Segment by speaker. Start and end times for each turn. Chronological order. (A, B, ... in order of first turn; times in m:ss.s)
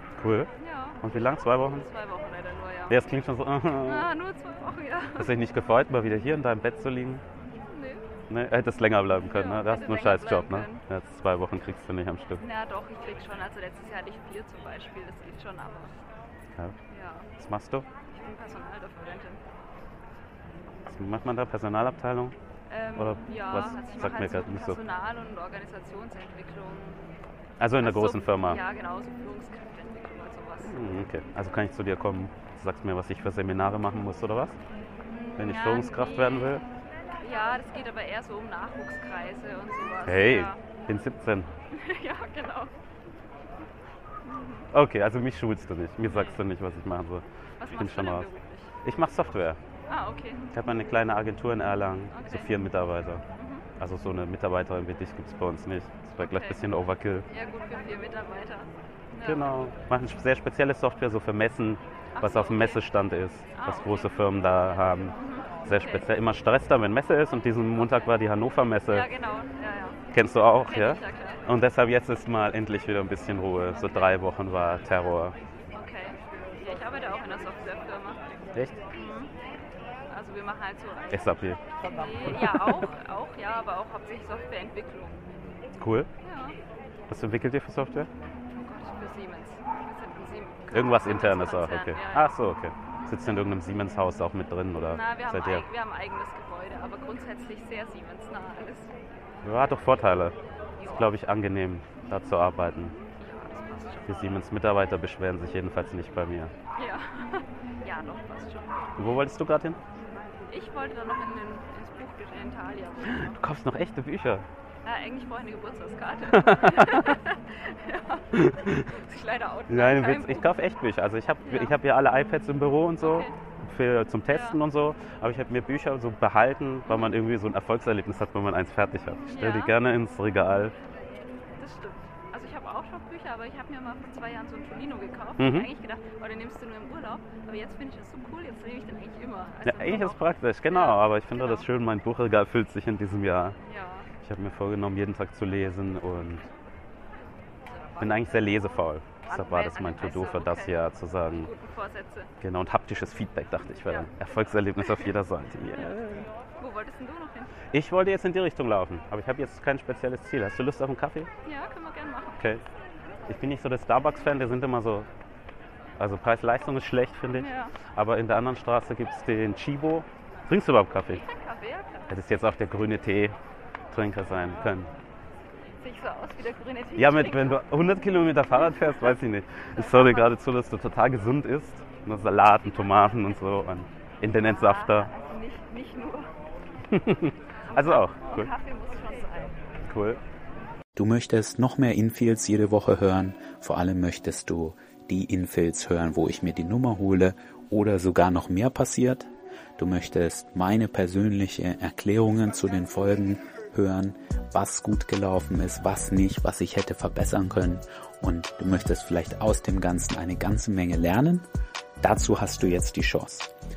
0:00.2-0:00.5 A
0:00.6-0:01.1 B
0:01.0-0:01.8 A
0:01.7-0:03.0 B
0:02.9-0:04.1 A
0:03.8-0:05.3 B
0:05.1-0:07.2 A
0:07.7-0:08.0 B
0:08.3-0:12.4 A
0:09.2-0:10.8 B
0:12.4-0:15.9 B
0:16.9-0:17.3 B
0:17.4-0:17.8 A
0:18.1-0:19.4 B
0:20.8-0:22.3 A
0:22.7-0:27.0 B
0:23.0-0:24.8 A
0:27.6-0:28.6 A
0:27.8-0:30.9 B
0:30.6-0:34.6 A
0:35.1-0:36.7 B
0:35.4-0:36.6 A
0:37.2-0:40.6 B
0:40.0-0:41.5 A
0:41.7-0:42.7 B
0:44.2-0:44.7 B
0:44.7-0:48.3 A
0:46.0-0:46.4 B
0:47.6-0:48.7 B
0:48.8-0:49.6 A
0:49.9-0:50.5 B
0:50.5-0:53.2 A
0:52.1-0:52.5 B
0:53.4-0:53.7 B
0:53.8-0:57.2 A
0:56.2-0:56.6 B
0:57.3-0:59.6 B
0:59.2-1:09.1 A
1:02.2-1:02.8 B
1:03.5-1:06.1 B
1:07.7-1:08.2 B
1:08.9-1:11.4 B
1:10.1-1:15.3 A
1:13.7-1:14.2 B
1:15.7-1:18.2 B
1:18.5-1:18.8 A
1:18.9-1:19.3 B
1:20.1-1:25.2 B
1:21.1-1:22.8 A
1:25.8-1:26.1 A
1:26.2-1:26.6 B
1:27.1-1:28.1 A
1:28.5-1:32.4 B
1:30.7-1:35.6 A
1:34.8-1:38.9 B
1:39.4-1:43.0 A
1:40.8-1:41.1 B
1:43.0-1:44.3 B
1:44.0-1:46.5 A
1:46.8-1:49.2 B
1:49.0-1:49.8 A
1:50.5-1:53.4 B
1:53.0-1:54.4 A
1:54.8-2:00.5 B
1:56.2-1:57.2 A
1:58.3-1:58.8 A
1:59.7-2:10.7 A
2:01.4-2:01.8 B
2:03.0-2:03.3 B
2:04.3-2:04.6 B
2:06.9-2:07.1 B
2:09.2-2:09.8 B
2:11.6-2:21.7 B
2:15.4-2:15.7 A
2:19.6-2:23.6 A
2:23.6-2:24.1 B
2:24.2-2:26.4 A
2:27.7-2:32.3 B
2:28.0-2:31.5 A
2:32.4-2:36.3 A
2:33.8-2:35.2 B
2:35.7-2:37.6 B
2:37.7-2:41.3 A
2:41.4-2:42.6 B
2:43.3-2:45.1 A
2:46.0-2:51.2 A
2:47.3-2:47.8 B
2:51.0-2:52.2 B
2:52.1-2:53.4 A
2:53.9-2:54.9 A
2:55.8-2:57.6 B
2:57.0-3:05.1 A
2:58.6-2:59.1 B
2:59.7-3:00.4 B
3:04.3-3:06.3 B
3:06.9-3:08.5 A
3:07.7-3:09.6 B
3:09.8-3:10.2 A
3:11.0-3:31.4 C
3:32.0-3:33.5 C